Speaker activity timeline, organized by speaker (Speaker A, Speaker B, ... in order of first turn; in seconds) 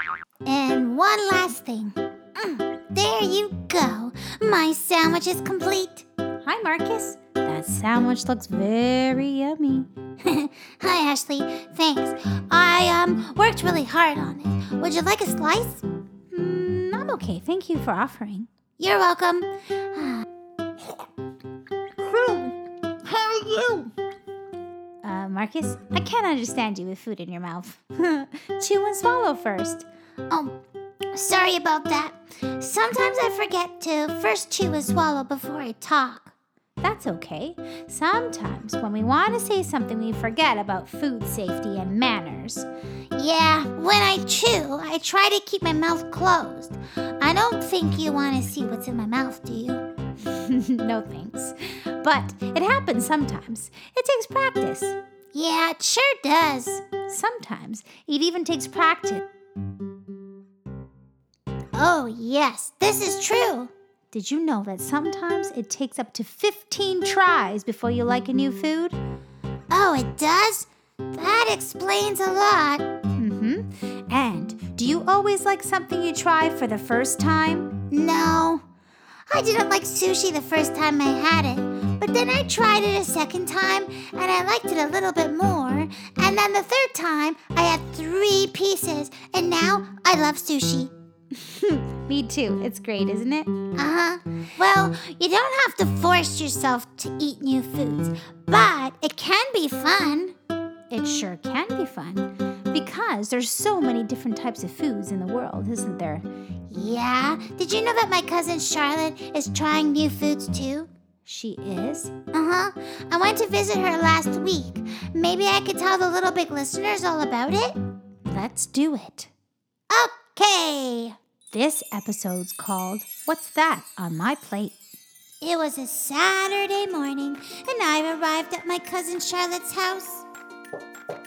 Speaker A: 0.5-6.1, 10.2-15.8, 18.8-20.3, 23.1-23.9, 30.3-30.6, 31.1-36.3, 43.1-49.8, 55.3-56.9, 61.7-63.7, 69.7-73.0, 77.8-78.6, 79.3-90.9, 93.7-100.3, 106.7-110.9, 112.3-117.8, 119.9-121.2, 125.4-130.3
Speaker B: 6.5-9.9, 16.3-18.5, 22.0-22.5, 25.0-29.9, 36.8-42.7, 50.2-55.0, 56.9-59.3, 64.1-69.0, 73.2-77.9, 91.4-93.5, 100.9-106.3, 111.3-112.1, 118.3-119.3, 121.5-124.8